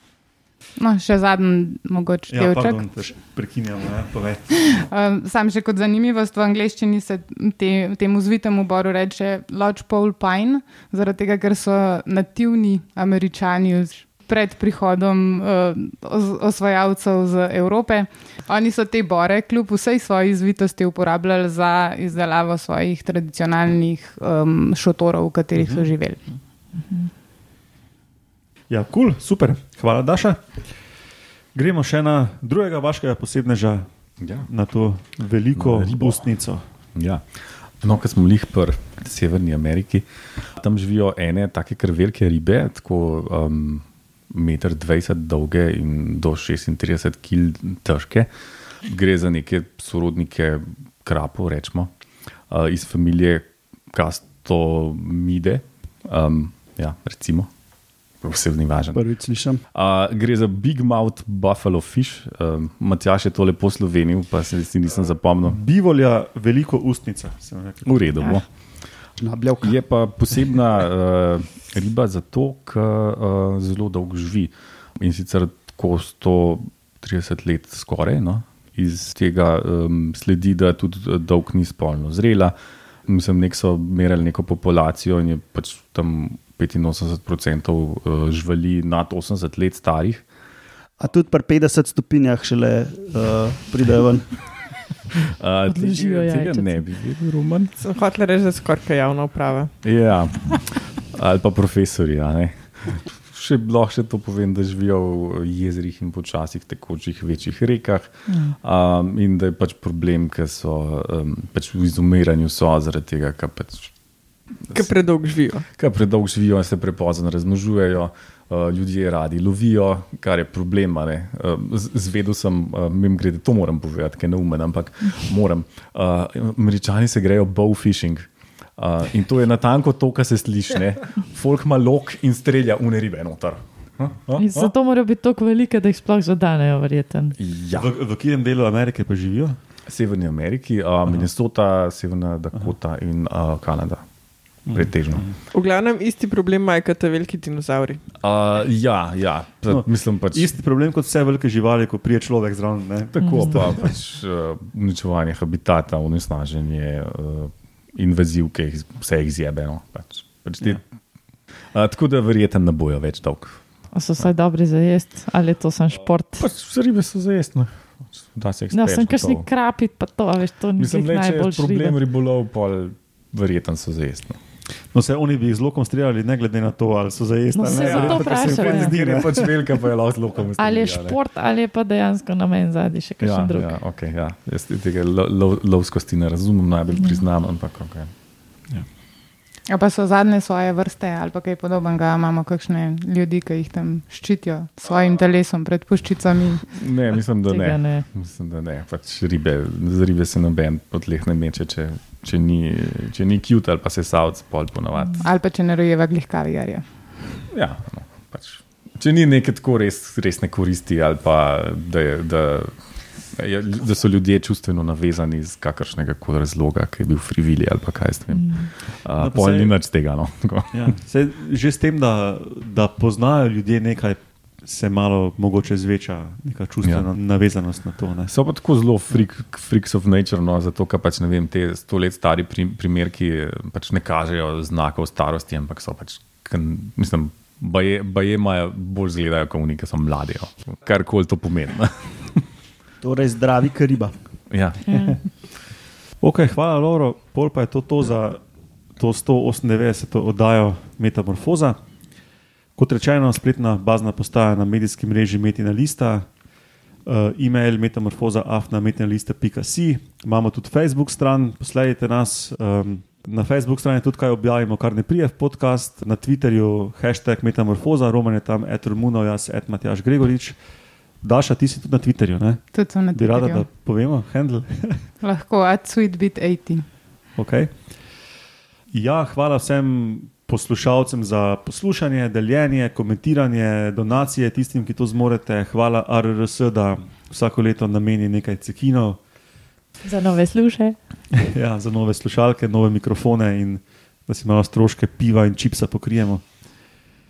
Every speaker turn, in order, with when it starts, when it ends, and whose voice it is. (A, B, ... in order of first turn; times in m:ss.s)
0:00.8-0:02.8 A
0:02.3-0:04.8 B
0:04.7-0:26.2 A
0:25.6-0:25.9 B
0:28.7-0:30.7 B
0:31.5-0:36.6 B
0:34.2-0:34.5 C
0:35.5-0:36.3 C
0:36.9-0:52.0 C
0:52.5-0:57.6 C
0:58.1-1:05.6 C
0:58.9-0:59.6 D
1:05.4-1:08.1 B
1:07.8-1:30.3 C
1:09.2-1:09.8 D
1:31.0-1:34.6 D
1:35.4-1:37.7 C
1:35.7-1:36.9 E
1:37.8-1:40.0 F
1:39.8-1:54.0 C
1:48.3-1:48.6 E
1:54.7-1:55.7 F
1:55.7-2:14.7 C
2:14.4-2:17.4 E
2:17.4-2:17.9 C
2:17.7-2:19.6 B
2:19.9-2:25.4 C
2:24.6-2:25.4 B
2:25.5-2:28.0 F
2:28.1-2:30.5 C
2:29.7-2:34.0 B
2:33.1-2:41.0 C
2:33.2-2:33.6 E
2:41.7-2:44.3 C
2:43.9-2:46.5 E
2:46.3-2:49.5 C
2:48.7-2:52.0 E
2:50.8-2:54.4 C
2:54.9-2:59.7 B
2:57.5-2:59.0 E
2:57.6-3:01.2 C
3:00.6-3:03.8 E
3:03.2-3:08.1 C
3:06.9-3:07.3 E
3:09.7-3:16.6 A
3:16.7-3:25.2 C
3:17.4-3:18.1 E
3:25.2-3:26.9 A
3:27.5-3:40.9 C
3:38.3-3:38.7 E
3:39.1-3:39.7 B
3:40.7-3:48.3 B
3:48.3-4:02.4 C
4:03.0-4:04.1 D
4:04.5-4:05.4 C
4:04.8-4:05.3 E
4:06.2-4:08.4 B
4:09.0-4:11.8 B
4:12.8-4:16.3 B
4:17.0-4:30.6 B
4:31.2-4:35.1 B
4:32.7-4:33.7 A
4:35.2-4:36.8 A
4:37.4-4:37.9 B
4:38.9-4:49.2 B
4:50.0-4:51.0 E
4:51.4-4:56.4 B